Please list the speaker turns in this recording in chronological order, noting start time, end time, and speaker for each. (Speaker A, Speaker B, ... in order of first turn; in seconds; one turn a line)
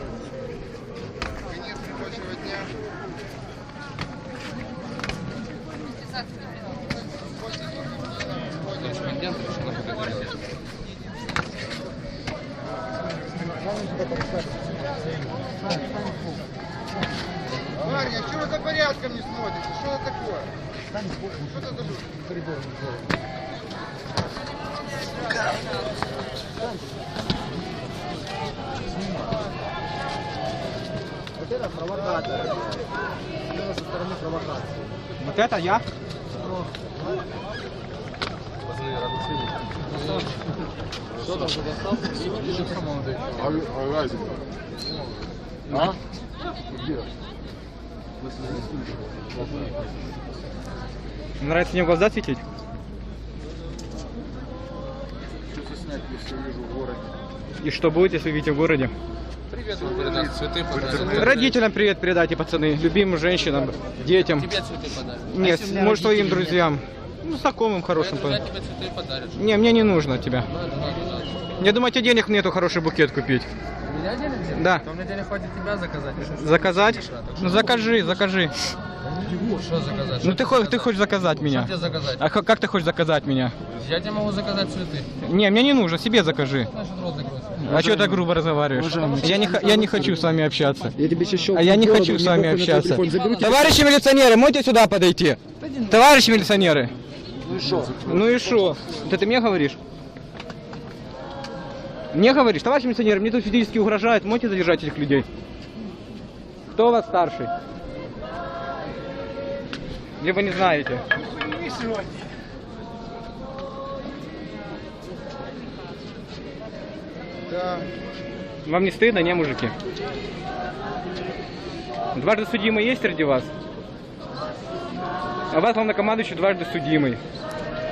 Speaker A: 1.5-2.7
Speaker B: 8.7-10.3
Speaker A: 17.8-20.5
Speaker A: 21.6-22.1
Speaker B: 31.5-32.8
Speaker B: 33.5-34.7
Speaker C: 35.2-35.9
Speaker B: 40.0-40.3
Speaker B: 41.2-43.6
Speaker C: 51.4-52.4
Speaker D: 55.8-57.0
Speaker C: 57.6-58.9
Speaker B: 59.5-61.6
Speaker C: 60.8-64.5
Speaker B: 64.4-66.4
Speaker C: 65.3-68.4
Speaker D: 65.6-66.4
Speaker B: 68.0-69.3
Speaker C: 69.3-70.5
Speaker B: 70.5-71.6
Speaker C: 71.6-73.5
Speaker B: 73.8-77.5
Speaker C: 74.6-74.9
Speaker C: 76.2-78.5
Speaker B: 79.3-80.8
Speaker C: 80.2-83.5
Speaker B: 81.4-82.2
Speaker B: 83.8-85.1
Speaker C: 85.2-86.7
Speaker B: 86.7-87.7
Speaker C: 87.6-91.0
Speaker B: 88.9-89.7
Speaker D: 91.0-93.2
Speaker B: 91.0-92.1
Speaker C: 91.5-96.9
Speaker B: 92.8-93.5
Speaker B: 97.5-98.0
Speaker C: 98.0-99.8
Speaker C: 102.1-105.3
Speaker C: 106.7-107.5
Speaker C: 110.2-111.0
Speaker A: 117.5-117.9
Speaker C: 118.7-119.7
Speaker C: 122.1-123.5
Speaker C: 125.5-127.2